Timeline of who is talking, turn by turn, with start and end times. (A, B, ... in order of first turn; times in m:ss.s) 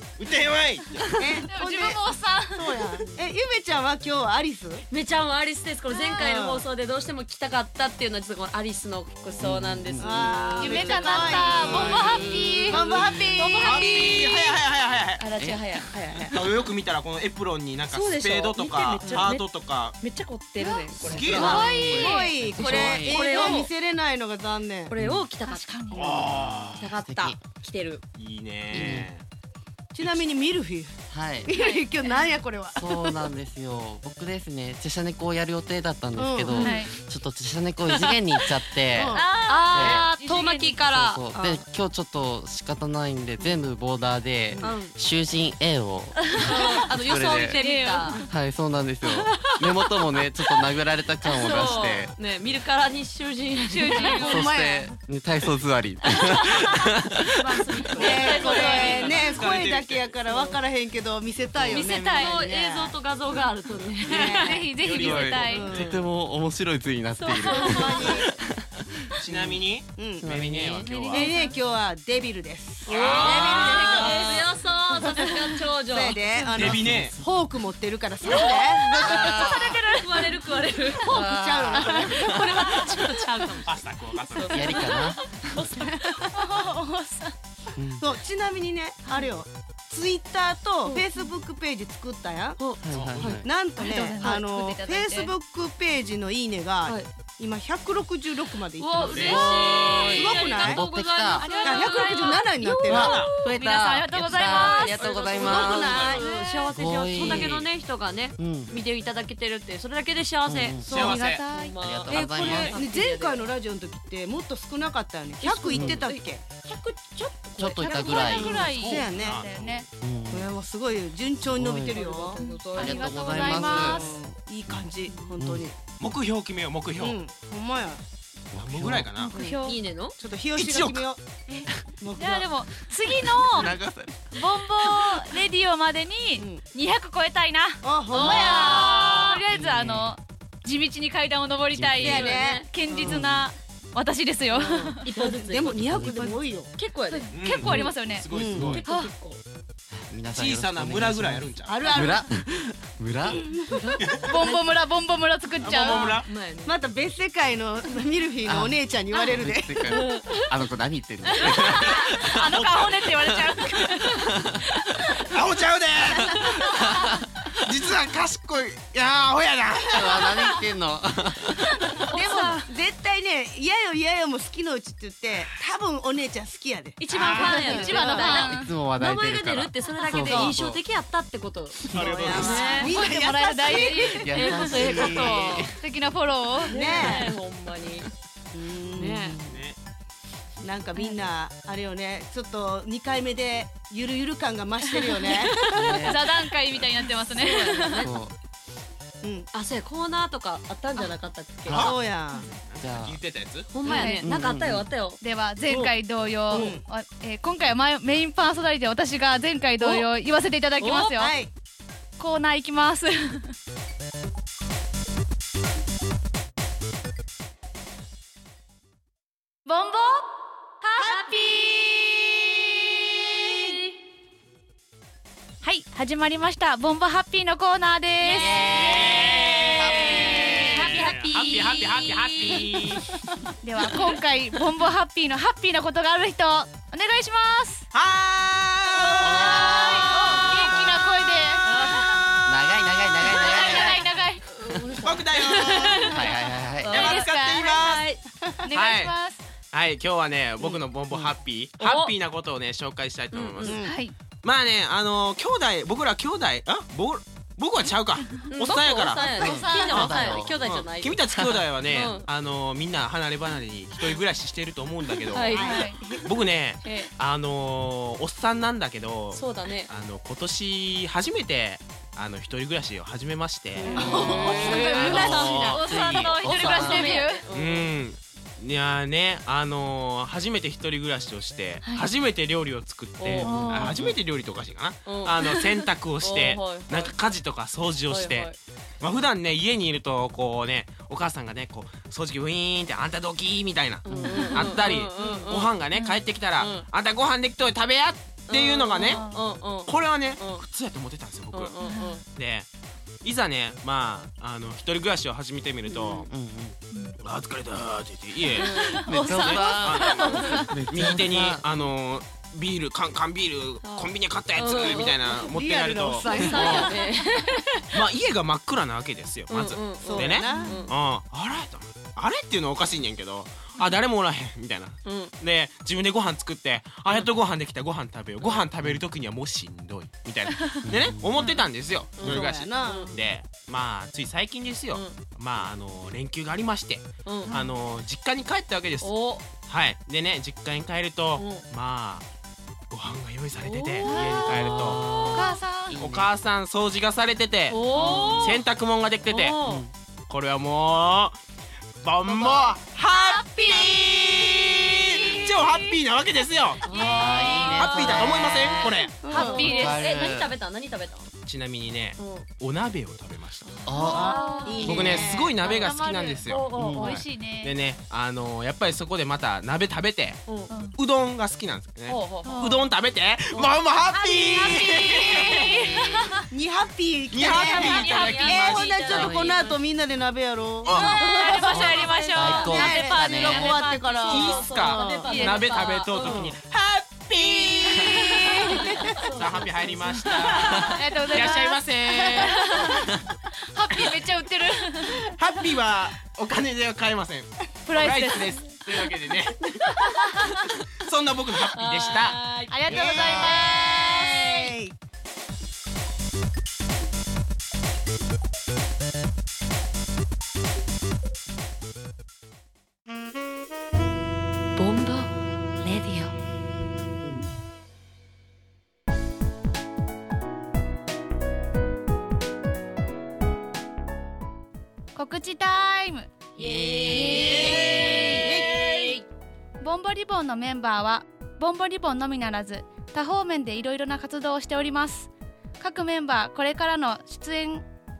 0:00.2-0:01.3 A
0:01.2-0:02.0 B
0:01.4-0:02.8 C
0:02.5-0:04.8 B
0:04.9-0:14.6 D
0:05.9-0:06.3 C
0:06.2-0:06.7 B
0:09.4-0:10.2 E
0:10.0-0:14.3 B
0:10.6-0:13.0 C
0:11.8-0:12.2 E
0:13.5-0:15.2 A
0:15.2-0:16.4 D
0:15.4-0:15.7 E
0:16.3-0:20.0 A
0:17.9-0:19.4 D
0:20.0-0:23.7 D
0:20.6-0:24.9 B
0:21.0-0:21.7 A
0:21.1-0:23.6 E
0:21.3-0:22.3 C
0:24.9-0:26.2 D
0:25.0-0:25.2 E
0:25.4-0:26.1 C
0:25.9-0:26.9 A
0:26.3-0:27.4 E
0:26.8-0:28.0 D
0:28.2-0:29.2 A
0:28.7-0:29.1 E
0:29.9-0:30.9 B
0:31.1-0:31.5 E
0:31.4-0:33.3 B
0:31.5-0:32.0 C
0:32.7-0:40.1 E
0:36.2-0:36.7 B
0:36.5-0:36.7 D
0:36.5-0:36.9 C
0:38.9-0:39.3 B
0:39.1-0:41.2 D
0:39.2-0:40.8 C
0:39.7-0:40.0 A
0:40.8-0:47.6 E
0:41.3-0:41.6 B
0:44.6-0:44.9 D
0:46.3-0:48.2 D
0:47.4-0:48.3 C
0:48.1-0:52.1 E
0:49.0-0:50.7 D
0:51.2-0:54.3 D
0:53.7-0:54.5 C
0:53.9-0:54.9 B
0:53.9-0:57.8 E
0:57.4-0:59.4 D
0:57.9-1:00.2 A
0:58.0-1:03.0 B
1:00.2-1:00.6 D
1:01.6-1:01.9 E
1:01.6-1:04.6 D
1:04.0-1:04.7 B
1:04.2-1:05.7 C
1:04.7-1:06.0 A
1:04.9-1:09.6 E
1:05.4-1:06.0 B
1:05.7-1:06.0 D
1:07.2-1:08.2 D
1:07.5-1:08.3 B
1:09.2-1:11.3 A
1:10.0-1:10.2 B
1:10.2-1:10.9 E
1:10.8-1:11.5 C
1:11.1-1:14.5 B
1:12.8-1:14.3 A
1:12.8-1:16.2 D
1:15.8-1:19.6 B
1:16.5-1:17.2 A
1:16.6-1:17.1 E
1:18.2-1:21.1 D
1:18.9-1:19.8 E
1:21.0-1:23.0 E
1:21.0-1:22.4 B
1:21.7-1:25.9 D
1:23.6-1:24.9 A
1:24.5-1:25.7 E
1:25.8-1:26.3 B
1:26.2-1:27.3 C
1:27.8-1:28.0 E
1:28.0-1:32.6 B
1:32.6-1:33.4 D
1:32.8-1:33.5 E
1:32.9-1:33.4 A
1:33.4-1:39.5 B
1:33.8-1:35.3 C
1:38.7-1:43.4 D
1:39.0-1:40.1 A
1:39.0-1:41.5 E
1:40.1-1:40.8 B
1:41.4-1:42.4 C
1:41.6-1:43.3 B
1:42.8-1:46.0 E
1:42.9-1:43.3 A
1:43.4-1:45.0 C
1:44.4-1:53.5 D
1:45.0-1:46.2 A
1:45.3-1:46.2 B
1:46.2-1:47.5 C
1:46.7-1:47.7 E
1:48.4-1:48.7 E
1:50.4-1:51.2 E
1:50.8-1:51.4 A
1:50.8-1:51.8 C
1:51.8-1:52.8 E
1:52.1-1:56.4 B
1:52.3-1:52.8 A
1:55.4-1:58.7 D
1:55.7-1:56.1 E
1:57.6-1:58.8 E
1:57.8-1:59.8 C
1:58.1-1:59.6 B
1:58.8-1:59.8 A
2:00.0-2:00.5 E
2:00.3-2:02.4 B
2:01.4-2:02.0 E
2:01.9-2:04.1 D
2:02.4-2:04.0 C
2:02.8-2:04.0 E
2:03.4-2:05.8 B
2:04.7-2:05.6 E
2:06.0-2:07.2 A
2:07.0-2:08.0 B
2:08.5-2:09.1 E
2:08.5-2:09.4 A
2:09.1-2:09.8 C
2:09.3-2:09.6 B
2:09.4-2:10.2 D
2:10.2-2:11.2 B
2:10.6-2:11.0 A
2:11.5-2:13.8 C
2:12.0-2:12.5 B
2:13.3-2:15.0 E
2:14.3-2:25.0 C
2:17.8-2:18.9 B
2:18.1-2:19.3 D
2:18.8-2:19.4 A
2:19.5-2:20.1 E
2:21.7-2:22.4 E
2:22.0-2:23.2 B
2:22.0-2:23.1 D
2:23.0-2:23.5 E
2:24.5-2:27.3 D
2:25.1-2:26.7 B
2:25.9-2:26.3 E
2:27.1-2:28.3 C
2:27.3-2:28.8 A
2:27.7-2:28.8 E
2:28.3-2:28.8 B
2:28.8-2:29.4 D
2:28.8-2:29.1 C
2:29.9-2:34.0 E
2:30.3-2:31.8 A
2:31.7-2:32.2 B
2:33.4-2:33.6 B
2:34.1-2:36.2 C
2:34.4-2:34.6 D
2:35.6-2:36.3 A
2:35.7-2:36.8 D
2:36.6-2:40.0 B
2:38.4-2:42.2 E
2:39.8-2:40.5 D
2:41.4-2:41.6 D
2:41.6-2:45.2 C
2:42.5-2:43.5 A
2:45.2-2:46.9 A
2:46.1-2:46.9 C
2:47.5-2:50.5 A
2:49.9-2:51.6 E
2:51.6-2:52.0 C
2:52.1-2:52.6 D
2:52.1-2:58.0 B
2:57.0-3:02.9 D
2:57.1-2:58.7 C
2:57.2-2:57.5 A
2:57.5-3:00.8 E
3:00.1-3:00.5 C
3:01.9-3:05.6 B
3:01.9-3:02.9 A
3:01.9-3:02.5 E
3:02.7-3:04.7 C
3:04.2-3:05.8 E
3:04.3-3:05.7 D
3:05.6-3:06.8 C
3:06.7-3:07.3 B
3:06.7-3:08.1 D
3:08.5-3:09.4 B
3:09.0-3:09.4 D
3:09.0-3:09.6 E
3:09.4-3:09.8 A
3:10.6-3:15.9 B
3:15.7-3:16.3 E
3:15.9-3:18.1 C
3:17.4-3:18.2 D
3:18.0-3:18.3 E
3:19.2-3:19.5 B
3:19.5-3:21.9 D
3:21.7-3:23.7 A
3:21.7-3:22.4 B
3:22.8-3:23.2 E
3:23.7-3:25.2 D
3:23.8-3:24.2 B
3:23.8-3:24.2 C
3:24.2-3:24.9 E
3:25.2-3:31.3 C
3:26.5-3:26.8 B
3:29.8-3:30.1 D
3:30.8-3:31.1 D
3:31.1-3:31.5 B
3:32.2-3:33.5 C
3:39.6-3:40.3 C
3:40.8-3:41.4 C
3:41.3-3:42.2 B
3:45.6-3:49.0 C
3:48.2-3:51.1 E
3:48.7-3:53.1 A
3:49.9-3:52.6 C
3:50.3-3:50.7 D
3:52.1-3:52.6 D
3:53.6-3:57.9 C
3:57.9-4:00.3 A
3:59.2-4:02.2 C
3:59.2-4:00.9 E
3:59.4-4:01.0 D
4:00.2-4:00.8 B
4:01.6-4:02.6 D
4:02.0-4:02.3 B
4:02.4-4:04.1 E
4:03.2-4:08.2 D
4:03.2-4:04.4 C
4:05.0-4:06.1 A
4:05.4-4:06.1 B
4:06.1-4:07.1 E
4:06.9-4:08.0 A
4:06.9-4:07.8 C
4:08.6-4:09.4 C
4:08.7-4:09.1 A
4:09.7-4:13.8 A
4:11.8-4:12.1 D
4:13.3-4:13.8 D
4:13.6-4:13.9 B
4:13.8-4:14.1 C
4:14.4-4:25.6 A
4:18.5-4:21.2 D
4:19.3-4:20.1 C
4:19.4-4:20.6 E
4:21.9-4:22.3 D
4:25.3-4:25.9 D
4:25.4-4:26.3 B
4:25.5-4:26.0 C
4:26.2-4:34.0 A
4:26.8-4:27.1 D
4:29.3-4:29.9 D
4:33.8-4:35.6 D
4:33.8-4:37.4 C
4:33.9-4:35.0 B
4:33.9-4:37.2 E
4:35.0-4:35.8 A
4:36.4-4:37.9 D
4:37.5-4:59.2 A
4:43.2-4:43.8 D
4:43.4-4:44.0 C
4:43.4-4:44.2 E
4:45.0-4:47.2 D
4:48.1-4:48.6 D
4:54.0-4:55.9 D
4:54.1-4:54.4 E
4:56.6-4:56.8 D
4:58.5-5:00.6 D
4:59.0-4:59.4 C
4:59.8-5:01.7 A
5:01.5-5:02.2 D
5:01.8-5:02.2 C
5:02.3-5:02.7 A
5:03.2-5:06.3 A
5:05.9-5:06.3 D
5:06.3-5:06.8 E
5:06.9-5:07.2 C
5:07.2-5:16.7 A
5:08.6-5:09.0 D
5:08.6-5:10.7 C
5:09.0-5:11.6 E
5:10.3-5:10.6 D
5:13.8-5:15.5 D
5:14.7-5:17.0 B
5:16.2-5:18.0 D
5:16.3-5:16.9 E
5:17.9-5:39.1 A
5:19.5-5:20.9 D
5:20.0-5:20.8 B
5:20.5-5:20.9 C
5:25.0-5:25.3 D
5:28.4-5:28.6 D
5:30.8-5:31.4 E
5:32.2-5:33.1 D
5:32.2-5:33.2 B
5:34.9-5:35.2 D
5:37.2-5:37.5 D
5:37.5-5:37.7 C
5:39.0-5:39.4 D
5:39.7-5:42.2 A
5:41.4-5:41.6 D
5:42.9-5:45.0 A
5:43.6-5:45.6 D
5:44.0-5:46.0 C
5:44.4-5:46.3 E
5:45.9-5:49.6 A
5:47.7-5:48.6 D
5:48.0-5:48.3 E
5:49.3-5:49.8 D
5:49.6-5:49.9 E
5:50.3-5:51.4 A
5:52.0-5:56.9 A
5:52.3-5:52.7 D
5:53.0-5:54.0 C
5:53.8-5:54.7 B
5:54.6-5:56.0 C
5:56.8-6:01.3 D
5:56.9-5:57.6 C
5:56.9-6:00.5 E
5:57.7-5:59.2 A
5:59.1-6:00.0 C
5:59.2-5:59.7 B
6:01.4-6:03.8 A
6:02.2-6:02.5 D
6:03.6-6:05.9 D
6:03.8-6:05.3 E
6:04.0-6:05.0 C
6:04.1-6:05.5 B
6:04.8-6:10.4 A
6:05.6-6:07.8 C
6:06.4-6:07.2 D
6:06.7-6:07.2 E
6:10.5-6:10.8 D
6:10.7-6:11.0 C
6:11.0-6:15.9 A
6:12.1-6:12.6 D
6:12.4-6:12.9 C
6:14.1-6:16.4 C
6:16.5-6:21.7 B
6:17.3-6:19.3 A
6:17.5-6:19.8 D
6:17.8-6:18.8 C
6:19.1-6:19.6 E
6:20.8-6:21.1 A
6:20.9-6:23.0 D
6:20.9-6:26.1 C
6:21.7-6:23.8 E
6:22.6-6:25.4 B
6:24.0-6:26.6 D
6:24.3-6:28.6 A
6:27.9-6:28.5 C
6:28.0-6:29.2 B
6:28.6-6:30.9 D
6:29.3-6:32.7 A
6:30.8-6:33.0 C
6:33.7-6:35.2 C
6:35.4-6:39.7 A
6:37.8-6:38.6 C
6:39.9-6:40.3 D
6:40.9-6:42.4 A
6:41.7-6:44.3 D
6:42.7-6:44.7 C
6:42.9-6:44.9 B
6:42.9-6:43.5 A
6:54.8-6:56.3 D
7:05.1-7:06.3 C
7:06.6-7:08.6 E
7:06.6-7:09.2 D
7:07.3-7:08.7 B
7:09.8-7:17.8 C